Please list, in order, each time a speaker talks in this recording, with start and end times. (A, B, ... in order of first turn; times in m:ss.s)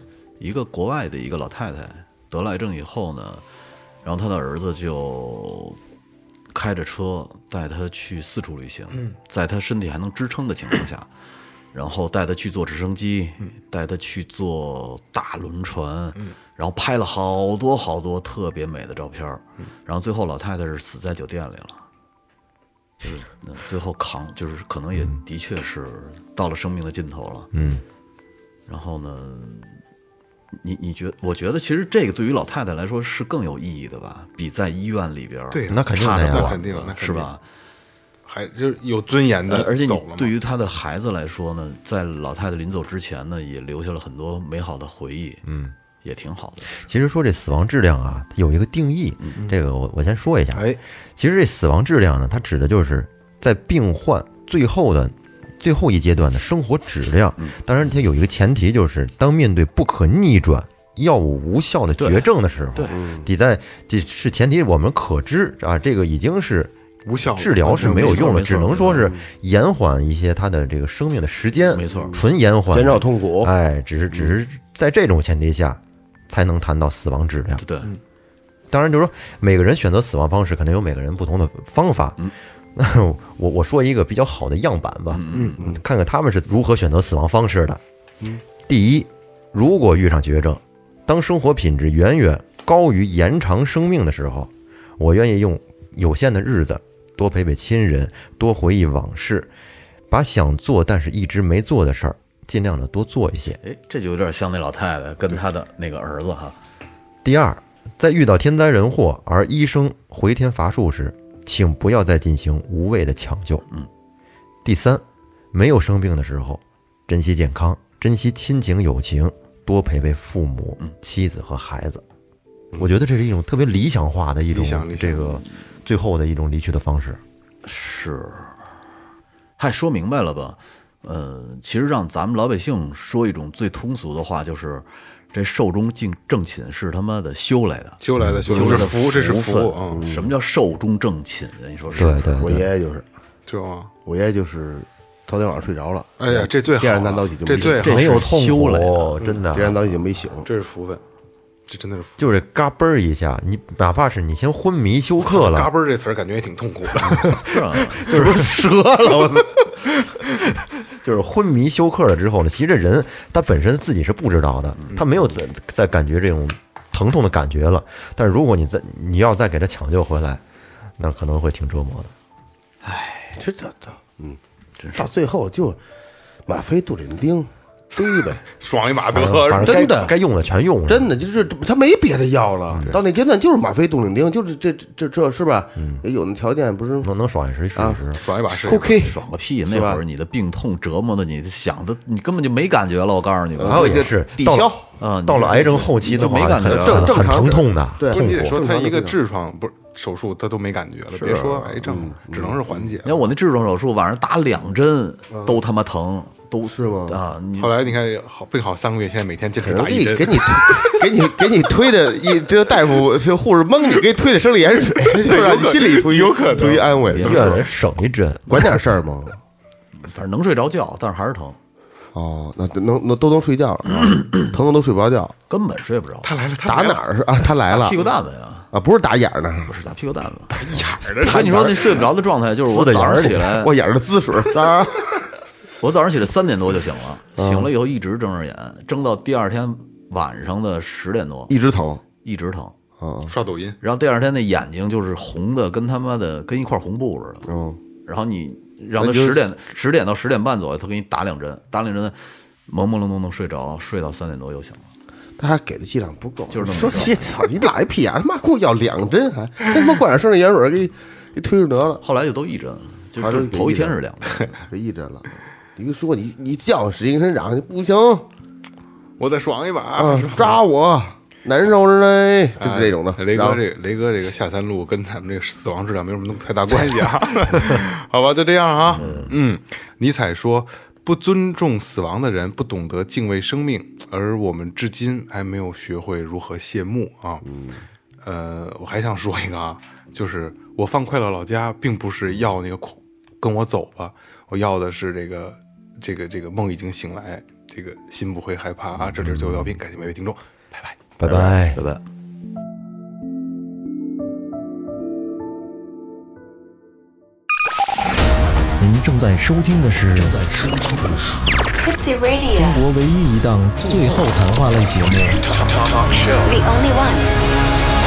0:00.4-0:03.4 A
0:04.0-0:05.8 A
0:06.5-0:11.1 A
0:11.7-0:21.8 A
0:23.0-0:27.5 A
0:27.5-0:27.8 B
0:28.7-0:29.8 A
0:30.6-0:37.4 A
0:35.5-0:37.3 C
0:35.7-0:36.6 B
0:38.2-0:40.3 C
0:39.5-0:45.4 A
0:45.4-0:45.7 B
0:46.0-0:46.8 A
0:46.8-1:06.7 B
1:02.0-1:03.0 A
1:02.9-1:03.3 D
1:07.0-1:08.4 C
1:07.2-1:17.6 B
1:07.7-1:09.1 A
1:09.0-1:09.2 D
1:11.7-1:12.2 A
1:11.9-1:13.5 D
1:17.6-1:17.9 A
1:18.7-1:27.8 B
1:25.1-1:25.6 A
1:25.3-1:25.6 C
1:28.7-1:39.5 B
1:40.1-1:43.6 B
1:43.6-1:46.6 A
1:47.2-1:53.6 B
1:54.6-2:02.0 B
2:02.7-2:07.2 B
2:04.5-2:05.4 C
2:07.6-2:08.6 A
2:09.6-2:22.4 A
2:18.0-2:20.0 C
2:18.2-2:18.8 B
2:19.9-2:20.3 D
2:22.0-2:22.6 B
2:22.3-2:23.0 D
2:23.5-2:23.9 C
2:24.0-2:27.8 D
2:26.2-2:28.0 C
2:27.6-2:29.2 A
2:27.8-2:29.8 B
2:29.2-2:29.5 C
2:29.5-2:30.5 D
2:30.4-2:31.0 C
2:31.7-2:32.2 C
2:32.2-2:35.7 B
2:35.2-2:38.0 C
2:37.0-2:38.8 A
2:37.9-2:39.4 B
2:39.0-2:39.4 D
2:40.9-2:50.4 B
2:51.0-2:52.1 B
2:52.8-2:53.4 A
2:53.3-2:54.4 D
2:54.8-2:55.1 A
2:54.9-2:55.8 D
2:56.4-2:58.4 D
2:58.4-2:59.7 C
2:59.1-3:00.2 D
2:59.1-3:01.1 B
3:00.9-3:07.1 D
3:02.7-3:03.0 B
3:05.8-3:06.0 B
3:07.0-3:08.2 B
3:07.7-3:10.0 D
3:08.1-3:09.0 C
3:09.0-3:14.0 A
3:13.6-3:14.8 D
3:13.7-3:14.7 B
3:15.0-3:17.5 A
3:15.2-3:18.6 B
3:15.4-3:19.2 D
3:18.1-3:23.2 C
3:21.1-3:22.0 A
3:21.8-3:22.9 D
3:23.0-3:27.9 A
3:25.3-3:25.6 D
3:26.7-3:27.2 D
3:27.6-3:31.0 C
3:29.6-3:37.6 D
3:35.2-3:37.0 C
3:37.1-3:37.6 A
3:37.1-3:38.8 B
3:38.5-3:39.4 D
3:40.0-3:41.6 A
3:42.1-3:45.3 D
3:44.0-3:44.4 A
3:45.5-3:46.3 A
3:46.2-3:47.0 C
3:46.6-3:48.0 D
3:47.7-3:48.7 A
3:48.7-3:49.7 D
3:49.6-3:53.7 A
3:50.6-3:52.1 C
3:51.3-3:51.7 D
3:52.7-3:53.6 B
3:53.2-3:55.2 D
3:55.8-4:01.5 A
3:57.4-3:57.7 D
4:01.5-4:02.0 D
4:02.2-4:02.7 A
4:03.0-4:03.3 D
4:03.3-4:03.8 C
4:03.8-4:07.5 A
4:07.4-4:07.8 D
4:08.0-4:14.9 A
4:09.0-4:09.4 D
4:15.4-4:22.0 D
4:16.5-4:17.3 A
4:22.0-4:24.6 A
4:23.2-4:24.0 D
4:24.5-4:28.2 D
4:29.2-4:30.6 C
4:30.0-4:33.6 D
4:32.6-4:47.4 C
4:38.8-4:39.4 A
4:47.4-4:47.8 D
4:48.2-5:01.4 C
5:01.2-5:01.8 B
5:01.3-5:02.0 A
5:08.8-5:11.6 E
5:11.8-5:12.8 F
5:12.5-5:16.3 E
5:16.4-5:17.3 F